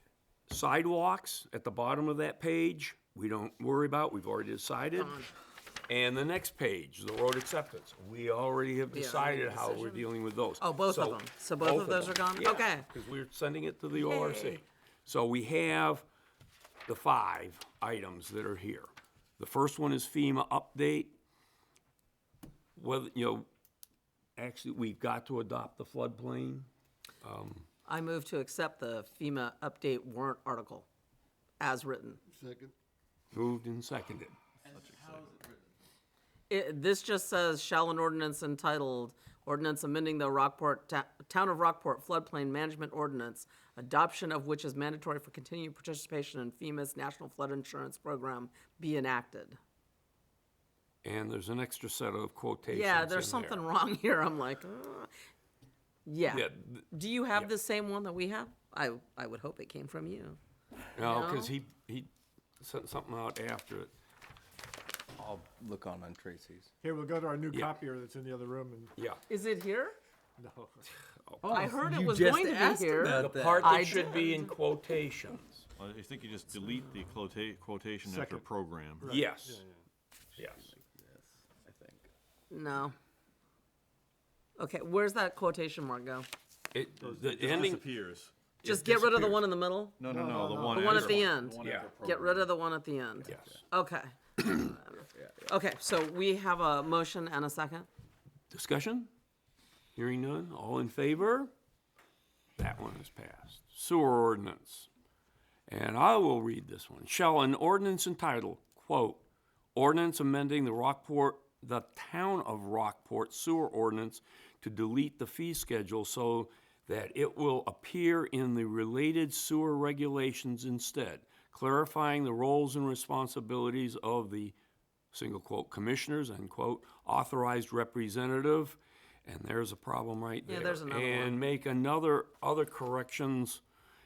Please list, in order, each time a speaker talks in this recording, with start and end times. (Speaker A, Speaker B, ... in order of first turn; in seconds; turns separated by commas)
Speaker A: 0.5-5.2, Speaker B: 4.9-5.3, Speaker A: 5.9-16.0, Speaker B: 8.9-10.1, Speaker B: 10.6-12.9, Speaker B: 13.9-14.6, Speaker A: 16.9-18.9, Speaker A: 19.4-21.1, Speaker A: 22.8-23.5, Speaker A: 24.4-26.7, Speaker A: 27.2-27.6, Speaker B: 27.9-30.9, Speaker B: 31.6-32.2, Speaker C: 32.4-32.7, Speaker A: 33.3-34.3, Speaker D: 34.7-35.4, Speaker B: 36.5-49.6, Speaker A: 51.0-53.6, Speaker B: 52.7-55.1, Speaker B: 56.0-60.4, Speaker A: 56.3-57.5, Speaker A: 60.9-62.1, Speaker B: 61.0-61.5, Speaker A: 62.6-63.9, Speaker E: 65.2-66.7, Speaker C: 66.8-68.9, Speaker A: 67.5-67.8, Speaker B: 69.3-70.0, Speaker C: 70.4-70.8, Speaker A: 71.2-71.7, Speaker E: 71.4-73.9, Speaker B: 71.5-74.5, Speaker A: 73.0-75.7, Speaker D: 75.8-79.2, Speaker C: 78.0-78.5, Speaker C: 79.0-79.8, Speaker A: 79.1-79.6, Speaker A: 80.4-80.7, Speaker B: 82.5-83.0, Speaker B: 84.6-86.3, Speaker A: 86.7-87.9, Speaker D: 87.0-88.3, Speaker B: 88.6-90.1, Speaker A: 88.6-89.2, Speaker D: 90.0-92.5, Speaker C: 90.1-91.0, Speaker B: 90.6-97.9, Speaker A: 91.6-91.9, Speaker A: 93.2-93.6, Speaker E: 95.1-95.5, Speaker A: 98.5-99.1, Speaker A: 100.0-101.5, Speaker A: 102.6-104.9, Speaker A: 105.7-109.2, Speaker A: 109.7-124.5, Speaker A: 125.1-133.6, Speaker B: 130.5-131.4